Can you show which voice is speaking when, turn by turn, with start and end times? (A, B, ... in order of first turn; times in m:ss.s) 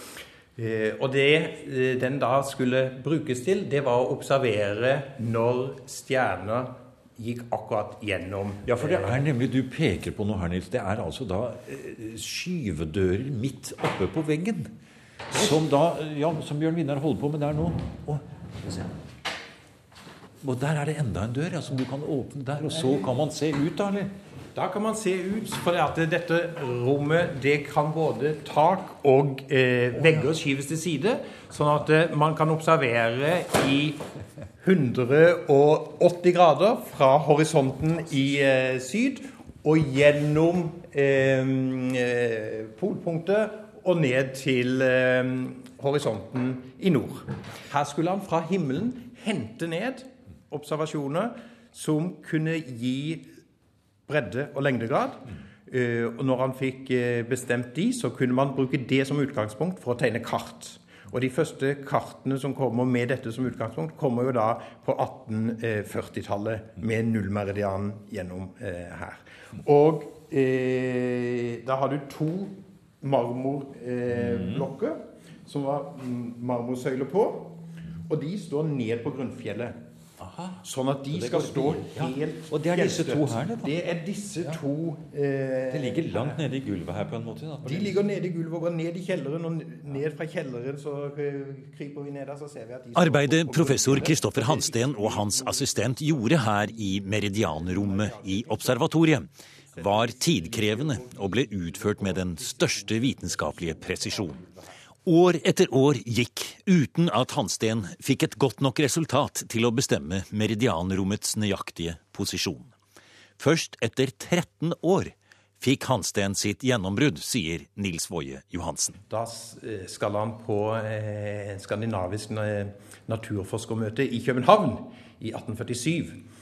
0:00.6-0:09.2 A
0:08.6-0:14.8 B
0:15.3-0:18.9 B
0:20.4-0:24.1 B
0:24.6-0:34.0 A
0:34.6-0:53.3 A
0:54.1-1:19.8 A
1:20.2-1:23.7 B
1:20.6-1:26.4 A
1:25.7-1:28.0 B
1:27.6-1:35.7 A
1:33.0-1:44.4 B
1:37.6-1:38.8 A
1:39.8-1:41.0 A
1:42.0-1:44.5 A
1:45.0-1:52.7 B
1:53.4-1:59.0 B
1:59.1-2:06.2 A